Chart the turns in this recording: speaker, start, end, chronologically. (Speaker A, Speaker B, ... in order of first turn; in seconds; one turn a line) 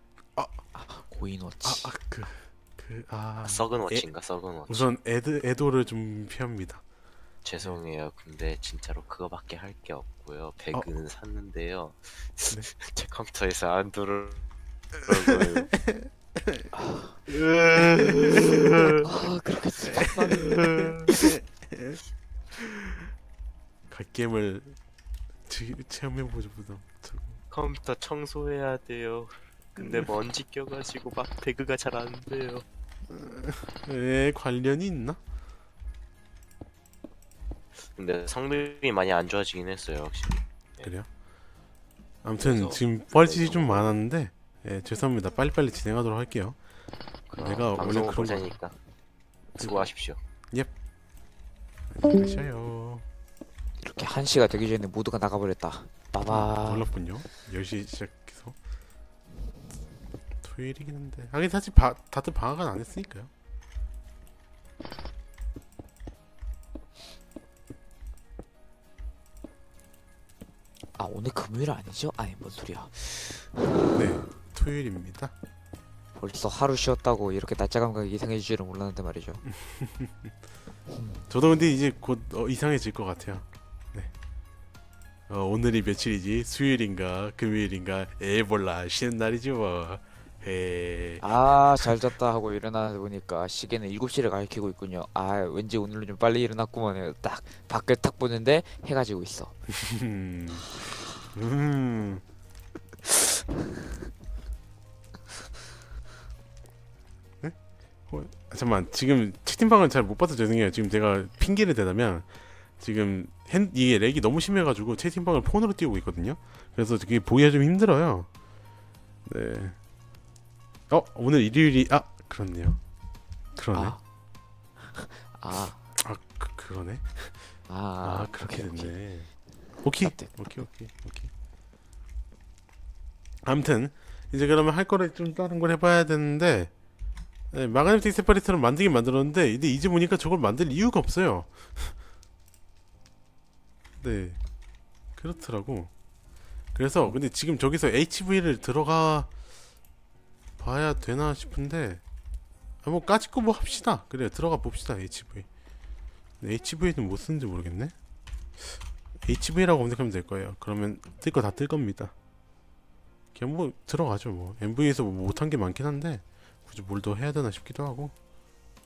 Speaker A: 0.7-1.9
Speaker B: 1.6-4.1
Speaker C: 3.4-4.9
Speaker B: 4.7-6.8
Speaker C: 7.4-14.4
Speaker C: 15.0-15.7
Speaker B: 15.8-16.7
Speaker A: 16.7-17.2
Speaker C: 17.3-18.7
Speaker B: 17.3-19.1
Speaker A: 18.8-21.4
Speaker B: 19.8-22.0
Speaker B: 22.5-23.1
Speaker B: 23.9-24.8
Speaker B: 25.5-27.4
Speaker C: 27.5-32.6
Speaker B: 29.8-30.1
Speaker B: 33.1-35.2
Speaker C: 37.8-40.9
Speaker B: 40.8-41.1
Speaker B: 42.2-46.6
Speaker C: 42.4-44.0
Speaker C: 47.3-48.8
Speaker B: 47.4-48.5
Speaker B: 49.6-49.9
Speaker C: 49.6-50.2
Speaker B: 51.9-53.0
Speaker A: 53.8-56.9
Speaker B: 56.3-58.6
Speaker B: 60.4-63.3
Speaker A: 71.0-74.2
Speaker B: 73.9-75.3
Speaker A: 76.2-79.4
Speaker B: 79.6-80.3
Speaker A: 80.9-81.2
Speaker B: 81.3-84.1
Speaker B: 85.3-92.0
Speaker A: 91.2-99.5
Speaker B: 99.7-102.2
Speaker B: 108.1-118.3
Speaker B: 119.2-119.8
Speaker B: 120.9-122.8
Speaker B: 123.5-124.0
Speaker A: 123.7-124.0
Speaker A: 124.8-125.8
Speaker B: 126.0-127.5
Speaker A: 127.7-129.0
Speaker B: 128.0-129.3
Speaker B: 129.8-131.3
Speaker A: 130.0-130.6
Speaker B: 133.4-136.7
Speaker B: 137.5-142.0
Speaker B: 144.0-144.4
Speaker B: 145.2-145.9
Speaker B: 146.7-149.3
Speaker B: 150.6-152.0
Speaker B: 152.8-155.5
Speaker B: 156.4-157.9
Speaker B: 158.7-162.1
Speaker B: 163.3-168.1